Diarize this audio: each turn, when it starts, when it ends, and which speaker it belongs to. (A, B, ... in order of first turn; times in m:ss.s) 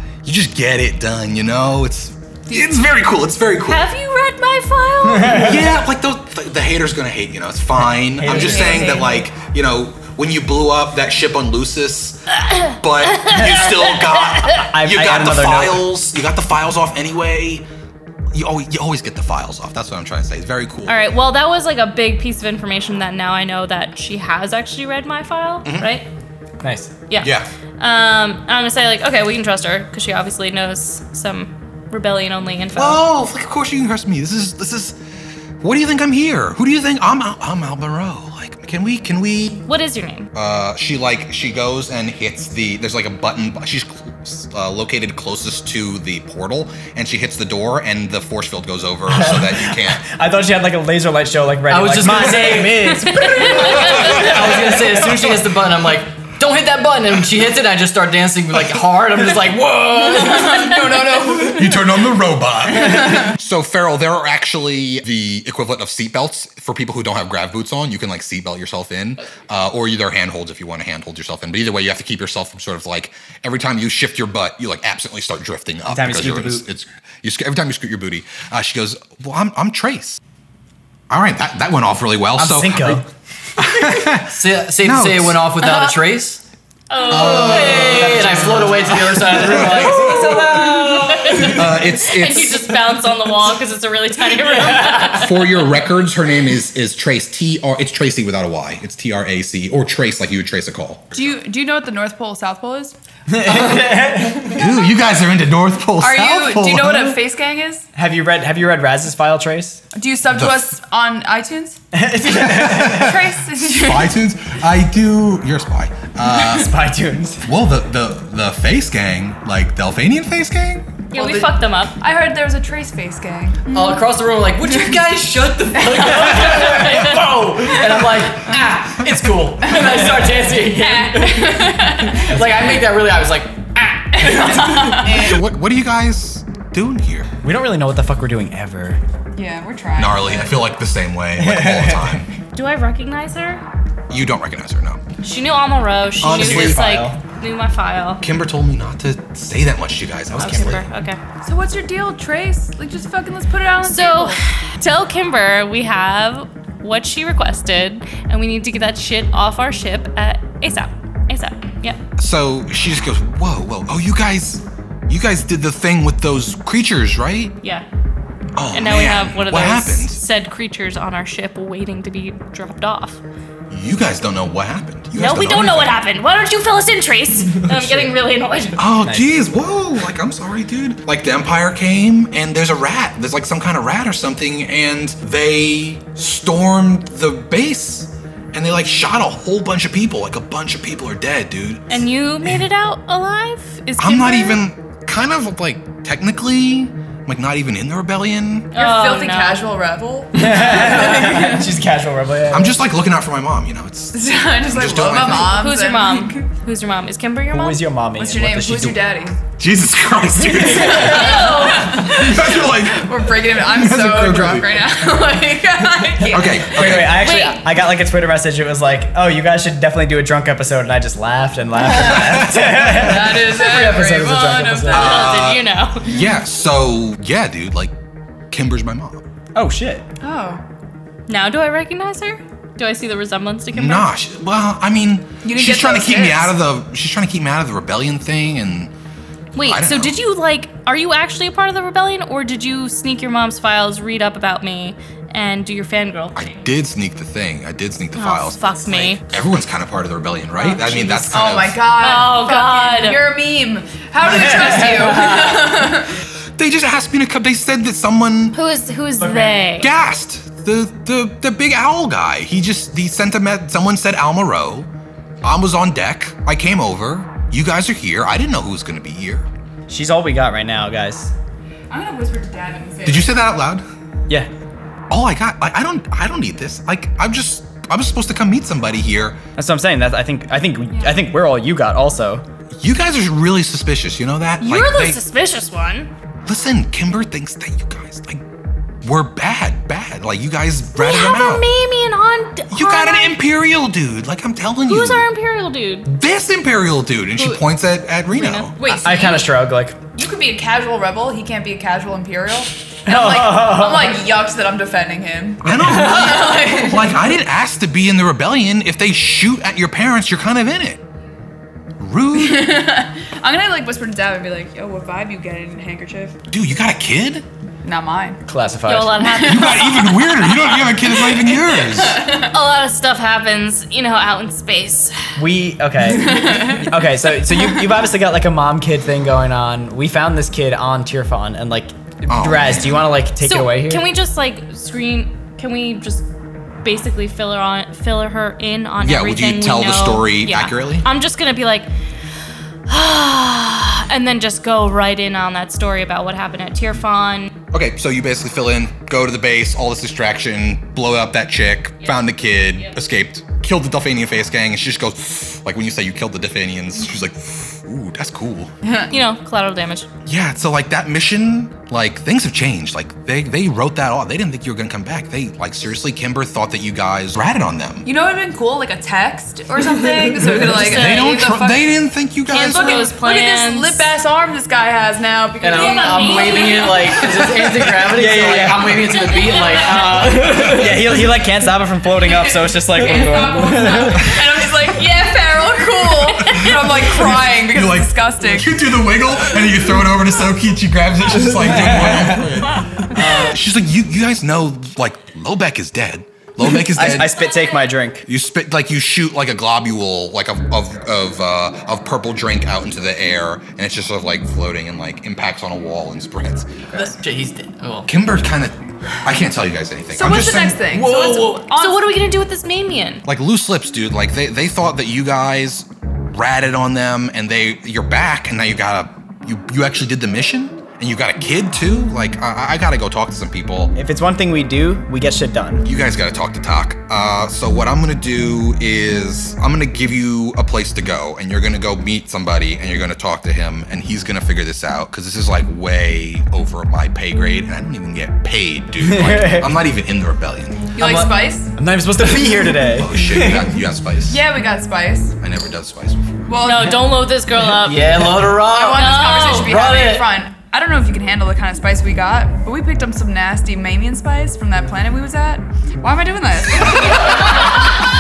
0:00.2-0:03.9 A
0:03.6-0:05.6 B
0:05.2-0:17.6 A
0:08.0-0:09.0 C
0:08.2-0:09.2 D
0:13.2-0:13.8 B
0:14.6-0:15.9 C
0:18.3-0:21.0 A
0:20.9-0:26.1 B
0:25.6-0:25.9 A
0:26.6-0:26.9 C
0:27.1-0:33.0 B
0:27.2-0:27.5 A
0:32.7-0:35.0 A
0:35.6-0:39.6 A
0:39.7-0:40.3 B
0:40.3-0:50.0 A
0:49.1-0:55.3 C
0:51.7-1:00.8 E
0:53.0-0:54.2 B
0:53.9-0:54.2 A
0:59.9-1:02.0 D
1:01.4-1:20.2 A
1:02.9-1:03.3 D
1:15.9-1:16.6 C
1:21.1-1:23.0 A
1:22.4-1:23.0 C
1:23.6-1:25.5 A
1:24.2-1:26.4 E
1:26.9-1:28.1 B
1:27.0-1:28.4 A
1:27.1-1:31.4 E
1:28.2-1:29.0 C
1:29.4-1:30.4 A
1:30.1-1:30.8 C
1:31.1-1:35.6 B
1:31.4-1:32.6 A
1:35.0-1:41.3 A
1:41.1-1:43.0 D
1:43.3-1:44.6 C
1:44.5-1:47.2 A
1:46.0-1:47.9 D
1:47.9-1:49.8 C
1:49.9-1:51.8 D
1:50.3-1:50.6 A
1:51.9-1:53.2 C
1:52.2-1:56.7 A
1:52.8-1:54.2 D
1:56.3-1:57.5 C
1:57.4-2:00.9 A
2:01.1-2:02.0 B
2:01.1-2:04.0 D
2:03.7-2:15.1 E
2:05.9-2:06.8 D
2:09.7-2:12.6 D
2:14.2-2:15.4 D
2:15.0-2:17.3 A
2:17.4-2:19.0 C
2:19.3-2:20.6 D
2:20.0-2:22.3 A
2:21.4-2:22.2 C
2:22.5-2:23.6 B
2:24.1-2:25.0 A
2:25.2-2:28.2 B
2:26.2-2:27.2 C
2:26.2-2:27.0 A
2:28.2-2:30.8 A
2:30.3-2:30.8 C
2:30.3-2:31.2 B
2:31.4-2:34.4 D
2:33.8-2:42.0 B
2:42.2-2:47.5 A
2:48.6-2:50.2 A
2:48.7-2:53.2 B
2:53.7-2:56.0 A
2:55.1-2:58.8 B
2:58.8-3:12.6 A
2:59.0-2:59.4 C
3:11.9-3:14.6 B
3:14.0-3:18.7 A
3:18.7-3:19.7 B
3:18.8-3:21.7 D
3:20.3-3:22.8 C
3:22.5-3:25.6 A
3:24.1-3:26.4 D
3:25.4-3:27.8 B
3:27.5-3:29.0 C
3:28.2-3:29.4 D
3:29.6-3:35.0 A
3:30.5-3:31.0 C
3:30.8-3:32.0 B
3:30.9-3:37.0 D
3:36.3-3:37.4 A
3:36.5-3:45.2 C
3:37.0-3:37.7 B
3:41.8-3:45.5 D
3:42.0-3:42.5 A
3:44.9-3:46.1 B
3:44.9-3:47.9 A
3:48.5-3:49.2 A
3:49.5-3:50.0 C
3:50.2-3:50.6 D
3:51.3-3:54.1 B
3:53.7-3:58.9 A
3:55.4-3:56.5 D
3:59.5-4:06.5 B
3:59.6-4:00.2 A
4:06.4-4:11.8 A
4:08.1-4:09.2 B
4:11.2-4:16.2 D
4:12.0-4:13.3 B
4:14.3-4:15.0 C
4:15.1-4:15.4 B
4:16.6-4:18.6 A
4:18.5-4:19.9 B
4:19.2-4:19.6 C
4:19.8-4:24.9 A
4:25.4-4:29.5 A
4:29.9-4:31.3 C
4:31.9-4:33.4 D
4:33.0-4:33.8 A
4:35.1-4:39.4 A
4:39.6-4:42.4 C
4:40.9-4:41.2 D
4:42.8-4:45.2 A
4:44.6-4:46.1 B
4:46.4-4:48.4 A
4:49.0-4:51.7 A
4:51.0-4:53.4 B
4:52.7-4:55.3 A
4:54.9-4:56.1 B
4:56.1-4:58.8 A
4:57.4-4:57.6 B
4:58.3-4:59.4 B
4:58.8-4:59.5 D
4:58.8-5:00.0 C
5:00.1-5:07.2 D
5:03.0-5:04.2 C
5:05.6-5:11.0 A
5:05.7-5:06.3 C
5:12.0-5:12.9 A
5:12.3-5:16.4 D
5:16.5-5:17.4 A
5:17.8-5:18.4 D
5:18.4-5:19.3 C
5:18.9-5:20.7 B
5:19.2-5:22.5 D
5:19.4-5:22.2 A
5:22.2-5:25.2 B
5:25.4-5:34.0 C
5:26.1-5:27.7 D
5:32.3-5:33.1 A
5:33.4-5:36.3 B
5:36.8-5:41.9 B
5:39.0-5:41.1 A
5:42.9-5:47.5 B
5:47.7-5:58.7 A
5:52.0-5:52.9 B
5:58.8-5:59.1 D
5:59.1-6:00.1 B
6:00.2-6:08.1 A
6:08.0-6:12.0 D
6:10.6-6:13.1 A
6:12.5-6:14.1 B
6:12.5-6:17.6 D
6:15.6-6:21.0 E
6:15.7-6:17.3 B
6:18.1-6:19.1 C
6:18.9-6:20.9 B
6:20.6-6:24.2 C
6:23.0-6:28.8 D
6:23.1-6:24.3 B
6:26.6-6:37.4 A
6:31.6-6:32.5 C
6:33.1-6:33.5 C
6:36.7-6:38.2 C
6:37.4-6:37.8 B
6:38.2-6:46.9 A
6:47.0-6:48.1 E
6:48.1-6:50.8 A
6:50.1-6:52.1 D
6:50.9-6:51.7 E
6:51.7-6:53.2 B
6:53.2-7:03.9 A
7:03.9-7:05.9 C
7:05.8-7:21.0 A
7:19.0-7:19.8 C
7:20.9-7:21.7 D
7:21.0-7:23.8 C
7:22.7-7:24.4 A
7:24.3-7:25.4 D
7:25.4-7:26.5 A
7:26.5-7:27.3 D
7:26.6-7:28.3 B
7:27.7-7:30.4 E
7:28.6-7:37.8 D
7:28.8-7:29.8 B